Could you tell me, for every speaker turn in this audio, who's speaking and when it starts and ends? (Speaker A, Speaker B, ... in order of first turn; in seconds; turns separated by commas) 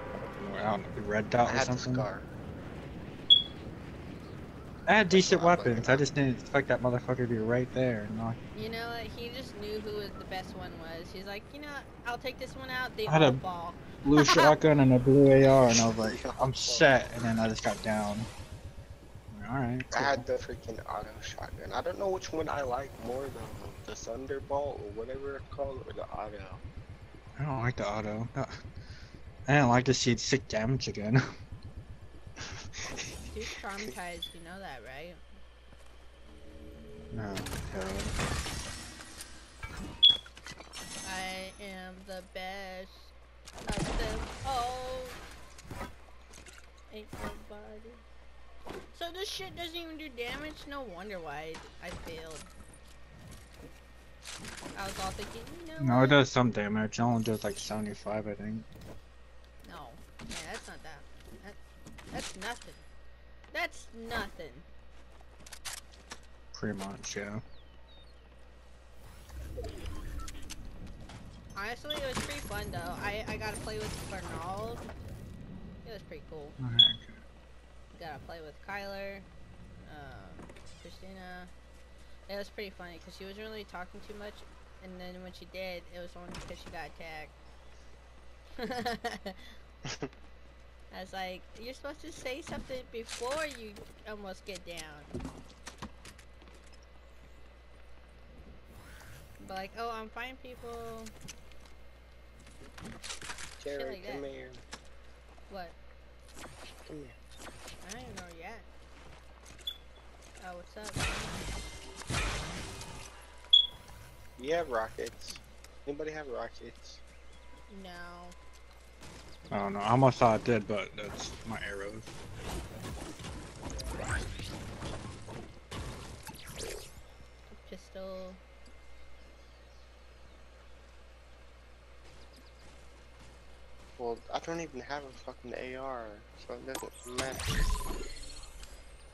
Speaker A: 0.3-2.1, Speaker B: 1.4-2.3, Speaker A: 4.9-8.4, Speaker B: 5.1-6.1, Speaker C: 8.5-14.5, Speaker A: 13.1-13.4, Speaker A: 14.0-18.3, Speaker B: 15.7-17.0, Speaker A: 19.3-20.3, Speaker B: 19.9-26.6, Speaker A: 27.4-28.5, Speaker A: 29.5-31.2, Speaker B: 32.4-33.2, Speaker C: 33.3-35.2, Speaker A: 37.1-38.2, Speaker C: 41.0-45.2, Speaker C: 46.9-48.0, Speaker C: 48.9-52.5, Speaker C: 54.8-56.2, Speaker A: 55.8-58.7, Speaker C: 59.6-61.6, Speaker C: 62.1-62.9, Speaker C: 63.5-64.7, Speaker A: 66.5-67.4, Speaker C: 71.5-74.8, Speaker C: 75.8-76.6, Speaker A: 76.6-77.2, Speaker C: 78.0-79.3, Speaker C: 79.8-81.5, Speaker C: 82.3-87.4, Speaker C: 88.6-89.4, Speaker C: 90.9-95.1, Speaker C: 99.4-101.1, Speaker B: 103.6-104.6, Speaker C: 103.7-104.3, Speaker C: 105.5-105.8, Speaker B: 106.8-107.2, Speaker C: 107.8-108.7, Speaker C: 110.4-111.5, Speaker B: 114.4-117.0, Speaker C: 117.7-118.4, Speaker A: 119.5-122.1, Speaker C: 127.5-128.4, Speaker B: 134.0-137.8